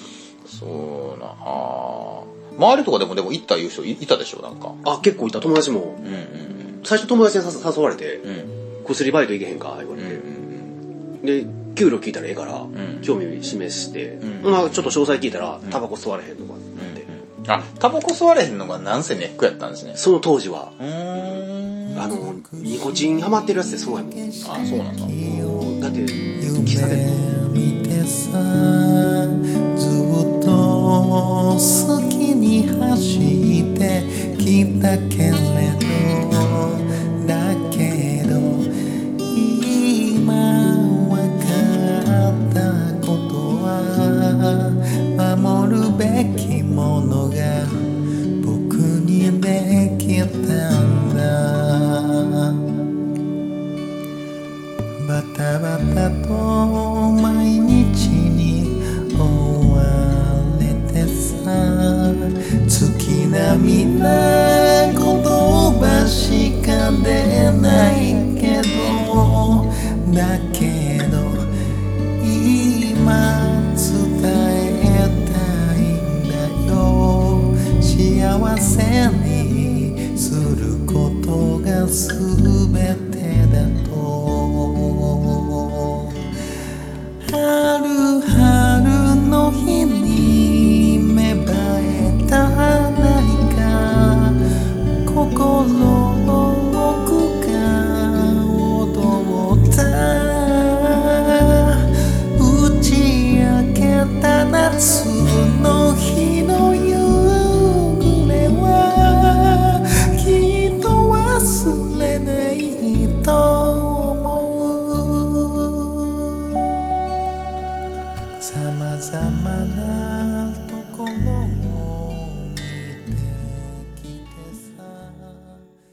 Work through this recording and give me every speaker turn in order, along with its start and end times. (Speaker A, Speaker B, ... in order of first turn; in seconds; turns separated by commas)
Speaker A: 0.5-4.8, Speaker B: 4.8-6.0, Speaker A: 6.0-6.8, Speaker B: 6.8-10.3, Speaker A: 8.2-8.5, Speaker A: 10.0-10.8, Speaker B: 11.2-17.1, Speaker A: 12.7-13.1, Speaker A: 14.2-14.9, Speaker A: 16.8-20.0, Speaker B: 19.9-20.8, Speaker A: 20.8-22.0, Speaker C: 21.9-52.6, Speaker B: 21.9-24.4, Speaker A: 24.4-25.1, Speaker B: 25.2-27.3, Speaker C: 55.0-86.3, Speaker C: 87.2-116.7, Speaker C: 118.4-125.7